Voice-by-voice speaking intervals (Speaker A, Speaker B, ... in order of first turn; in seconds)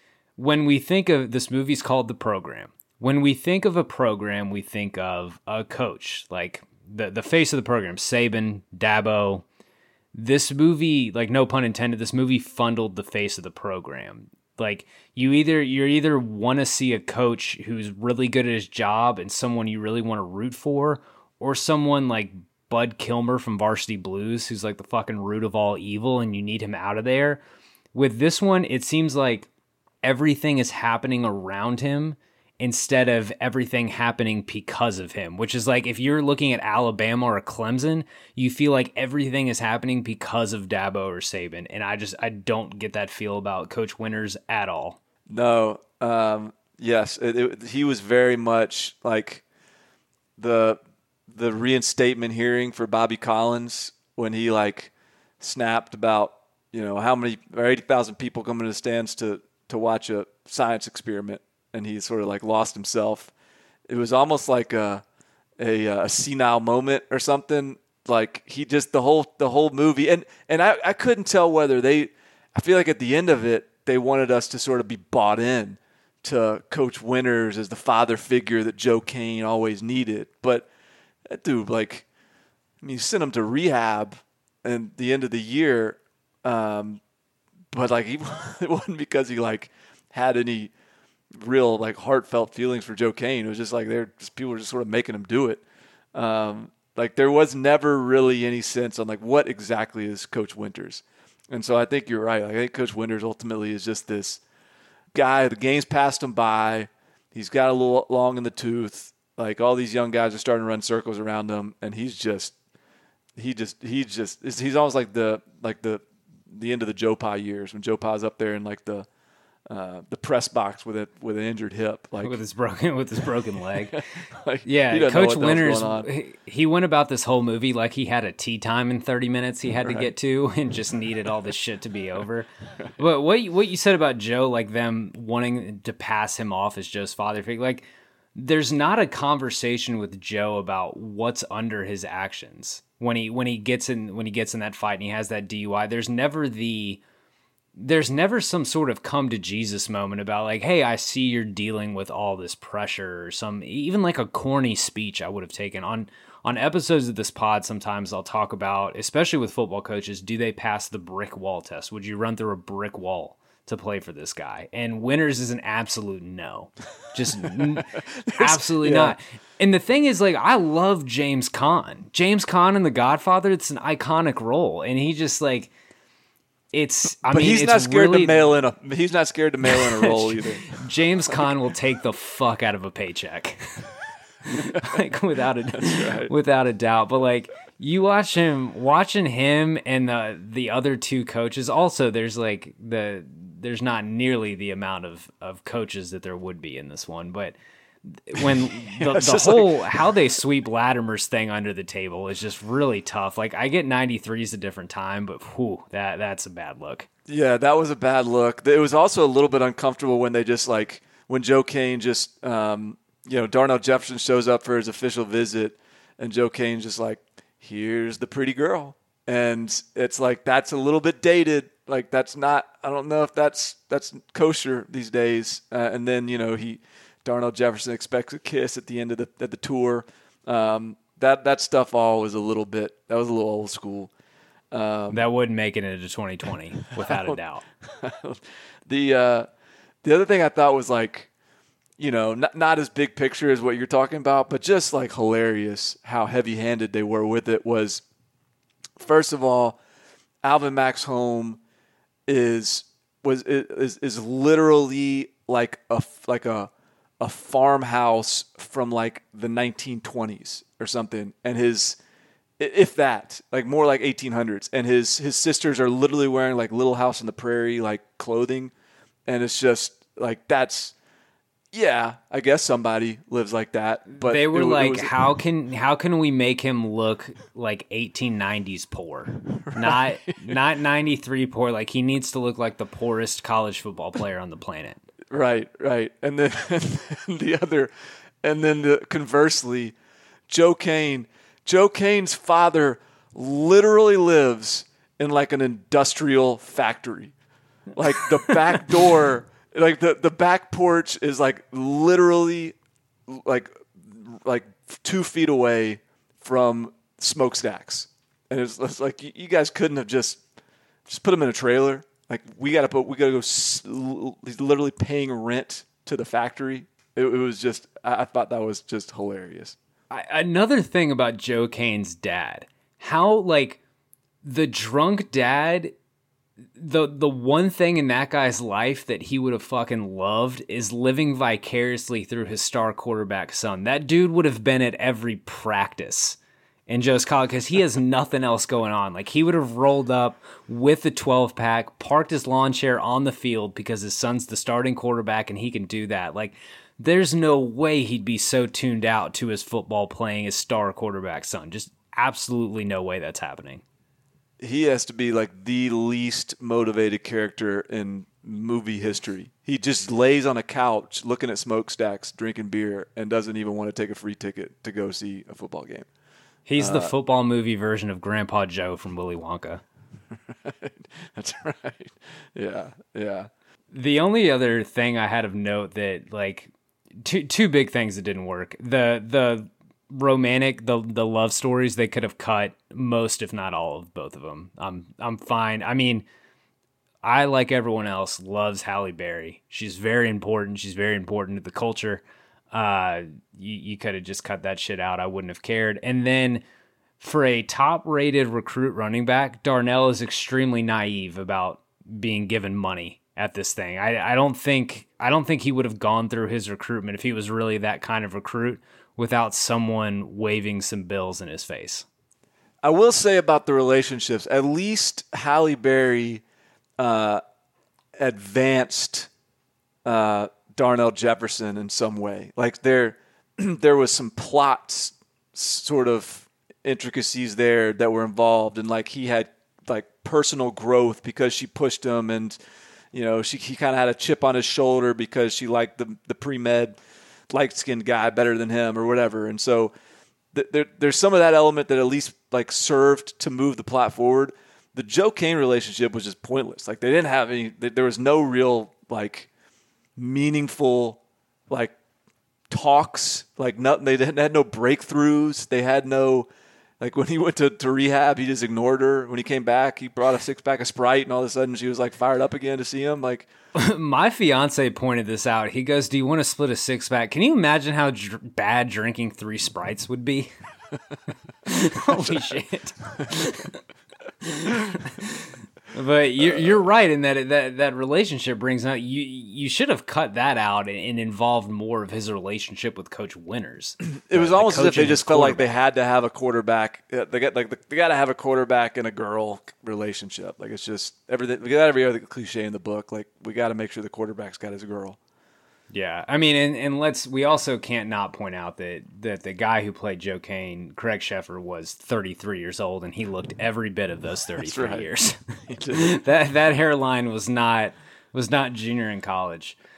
Speaker A: 0.4-9.4, 10.1-27.4, 27.9-29.5, 30.0-45.0, 122.2-124.0, 124.6-147.0, 147.8-175.7, 176.7-178.5, 179.7-183.9, 184.5-197.6, 198.1-207.1, 235.1-237.6, 274.2-285.0, 320.1-323.8, 324.4-325.9, 326.8-336.4, 336.9-353.8, 366.7-369.8, 373.9-386.2, 387.2-396.6, 397.2-412.1, 463.7-470.5, 471.7-473.8, 474.4-485.7, 495.9-505.4, 505.9-509.8
Speaker B: 45.3-49.4, 50.4-63.3, 63.9-65.0, 65.6-80.7, 81.3-82.0, 82.8-87.0, 87.7-90.7, 91.4-95.6, 96.1-104.4, 105.1-112.5, 113.3-119.0, 119.7-122.4, 123.9-126.1, 168.2-169.2, 177.3-181.4, 185.8-186.3, 198.4-200.1, 207.3-234.1, 234.7-235.2, 237.0-239.5, 240.0-241.3, 242.0-248.0, 249.0-249.8, 250.4-251.6, 252.3-262.0, 262.6-268.7, 269.3-270.9, 271.7-275.2, 279.6-280.4, 285.3-287.9, 288.4-289.9, 290.5-297.3, 297.9-302.7, 303.3-310.4, 311.1-319.7, 354.6-366.1, 366.8-367.1, 370.5-373.5, 412.8-416.4, 417.0-417.4, 418.2-419.3, 420.0-432.6, 433.1-437.0, 437.5-439.9, 440.5-449.5, 450.1-451.9, 452.7-456.5, 457.0-463.5, 484.1-495.2, 504.6-505.1, 505.7-506.2